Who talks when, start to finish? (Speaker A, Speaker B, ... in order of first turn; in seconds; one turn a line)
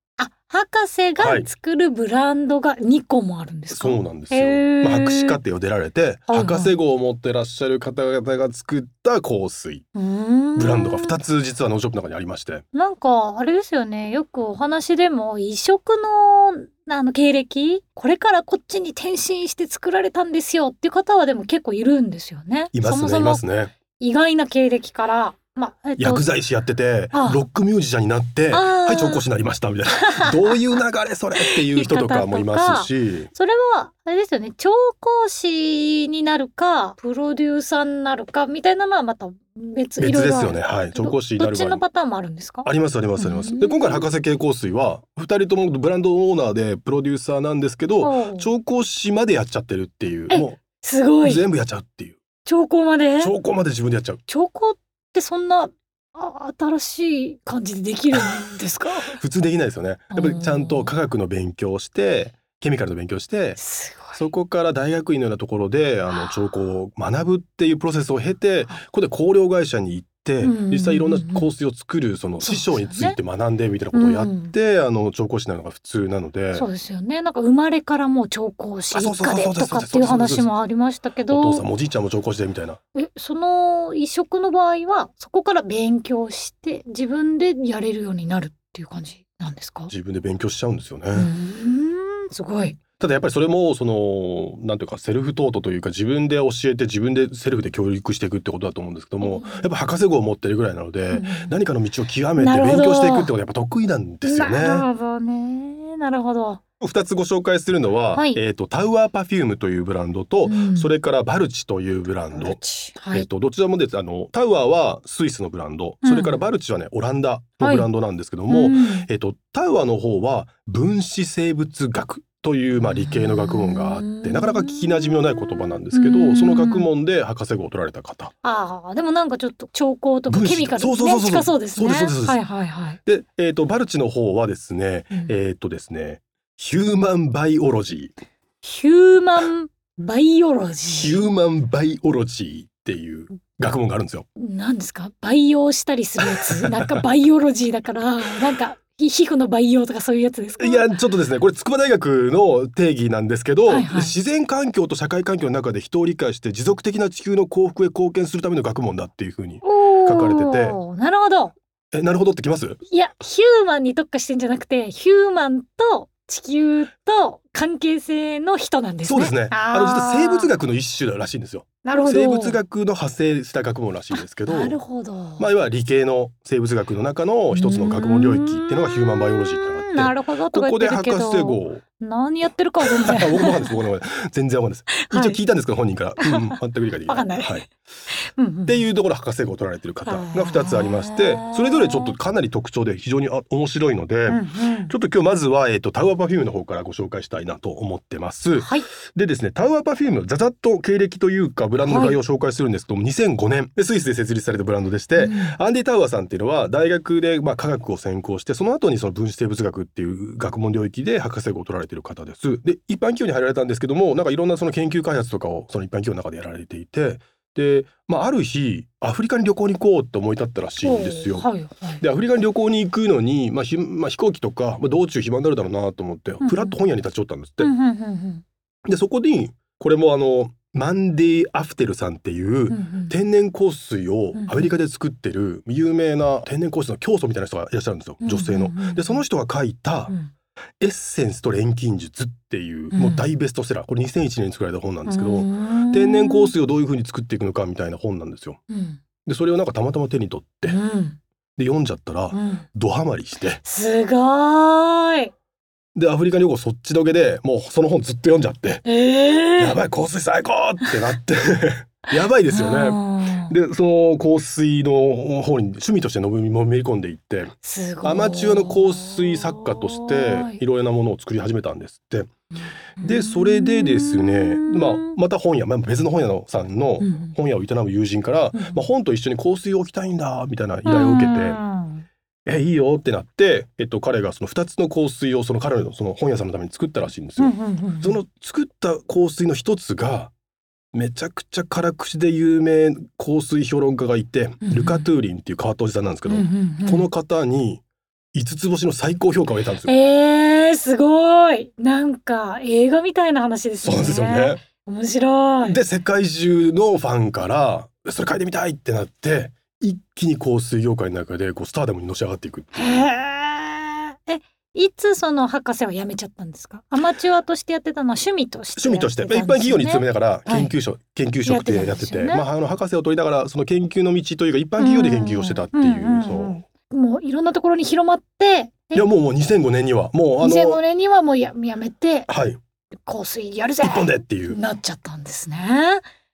Speaker A: 0.2-5.4
Speaker B: 1.2-1.5
Speaker B: 3.7-9.8
Speaker A: 6.3-6.7
Speaker A: 9.9-11.1
Speaker B: 10.6-12.6
Speaker A: 12.7-23.4
Speaker B: 22.7-23.7
Speaker A: 24.0-26.2
Speaker B: 26.0-33.3
Speaker A: 27.1-27.4
Speaker A: 28.5-29.2
Speaker A: 30.0-30.5
Speaker A: 31.4-44.1
Speaker B: 40.0-41.8
Speaker B: 42.6-50.6
Speaker A: 48.0-48.5
Speaker A: 50.3-51.4
Speaker B: 51.2-52.2
Speaker A: 52.4-53.3
Speaker B: 53.2-54.2
Speaker A: 54.3-59.2
Speaker B: 59.2-63.6
Speaker A: 60.1-60.9
Speaker A: 63.6-64.2
Speaker B: 64.1-76.7
Speaker A: 66.1-66.6
Speaker A: 70.4-71.5
Speaker A: 72.4-73.2
Speaker A: 73.9-74.5
Speaker A: 76.5-81.7
Speaker B: 78.9-80.5
Speaker B: 81.3-82.8
Speaker A: 82.9-89.9
Speaker B: 89.9-91.3
Speaker A: 91.1-92.8
Speaker B: 93.0-104.8
Speaker A: 99.2-99.7
Speaker A: 101.1-101.5
Speaker A: 102.4-103.3
Speaker A: 104.2-106.6
Speaker B: 106.8-112.6
Speaker A: 108.1-108.4
Speaker A: 110.5-110.9
Speaker A: 112.3-113.3
Speaker B: 113.1-128.3
Speaker A: 116.0-116.4
Speaker A: 117.6-117.9
Speaker A: 118.5-119.1
Speaker A: 122.8-126.9
Speaker A: 128.4-133.0
Speaker B: 130.3-132.4
Speaker B: 133.1-138.1
Speaker A: 138.6-141.2
Speaker B: 141.0-144.3
Speaker A: 144.4-150.9
Speaker B: 146.2-147.0
Speaker B: 150.6-160.8
Speaker A: 153.7-154.1
Speaker A: 159.6-161.5
Speaker B: 161.9-162.8
Speaker A: 162.9-170.5
Speaker B: 169.0-174.8
Speaker A: 171.8-172.6
Speaker A: 174.5-175.5
Speaker B: 175.4-181.8
Speaker A: 177.5-183.8
Speaker B: 182.8-187.7
Speaker A: 185.0-185.4
Speaker A: 186.2-186.5
Speaker A: 187.1-188.8
Speaker B: 188.7-221.5
Speaker A: 190.0-192.2
Speaker A: 194.3-194.9
Speaker A: 198.6-198.8
Speaker A: 201.8-202.2
Speaker A: 205.2-205.6
Speaker A: 220.8-222.0
Speaker B: 222.0-227.7
Speaker A: 226.4-226.8
Speaker A: 227.6-228.4
Speaker B: 228.8-240.1
Speaker A: 232.7-233.2
Speaker A: 234.3-234.7
Speaker A: 238.2-239.2
Speaker B: 240.8-248.6
Speaker A: 242.9-243.2
Speaker A: 245.1-246.5
Speaker A: 248.7-249.0
Speaker B: 249.2-250.8
Speaker A: 250.7-251.2
Speaker B: 251.6-253.6
Speaker A: 252.3-252.7
Speaker A: 253.6-255.3
Speaker B: 255.9-258.8
Speaker A: 258.9-259.8
Speaker B: 259.6-272.3
Speaker A: 262.5-263.5
Speaker A: 267.6-270.6
Speaker A: 272.5-275.2
Speaker B: 273.0-281.6
Speaker A: 277.0-277.4
Speaker A: 278.5-278.8
Speaker A: 280.9-282.1
Speaker B: 282.5-290.3
Speaker A: 287.4-288.2
Speaker B: 290.9-297.8
Speaker A: 294.6-295.1
Speaker A: 296.3-297.1
Speaker B: 298.3-299.9
Speaker A: 299.9-305.8
Speaker B: 303.8-304.6
Speaker B: 305.6-313.1
Speaker A: 312.7-320.7
Speaker B: 318.8-326.6
Speaker A: 321.4-322.5
Speaker A: 324.8-329.1
Speaker B: 328.9-330.8
Speaker A: 330.4-332.3
Speaker B: 332.3-332.6
Speaker A: 333.0-336.0
Speaker B: 333.8-334.6